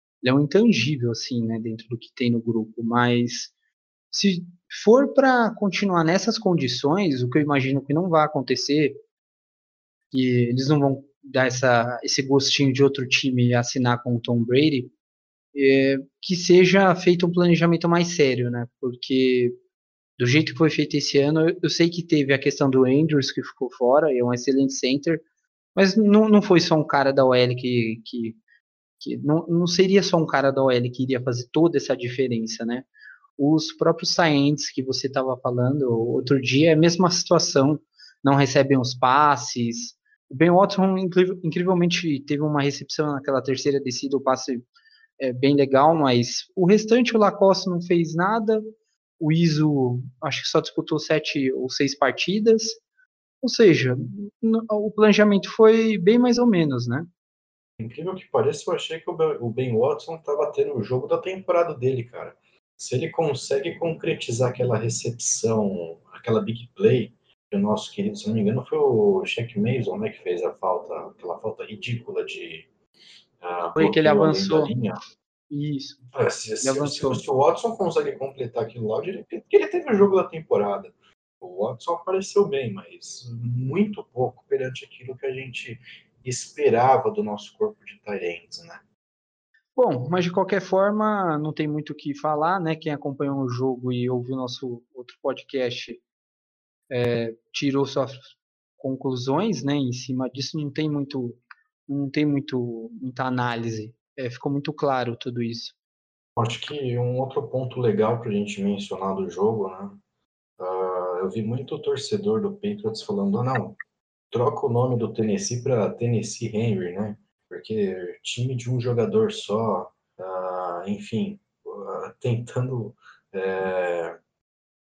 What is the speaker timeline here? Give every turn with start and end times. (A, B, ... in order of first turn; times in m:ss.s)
0:00.2-0:03.5 A
0:04.1-0:09.0 A
0:10.1-0:14.9 A
0:15.5-0:19.5 A
0:20.2-0:25.2 A
0:25.8-0:28.4 A
0:29.0-0:44.6 A
0:45.2-0:48.6 A
0:49.2-0:52.8 A
0:53.4-0:57.1 A
0:57.8-1:12.7 B
1:13.4-1:15.0 B
1:13.8-1:14.7 A
1:15.5-1:16.0 A
1:16.2-1:28.8 B
1:16.6-1:17.2 A
1:29.8-1:36.0 A
1:36.9-1:38.2 A
1:38.8-1:45.8 A
1:46.4-1:50.0 B
1:50.6-1:53.8 B
1:54.3-2:04.2 B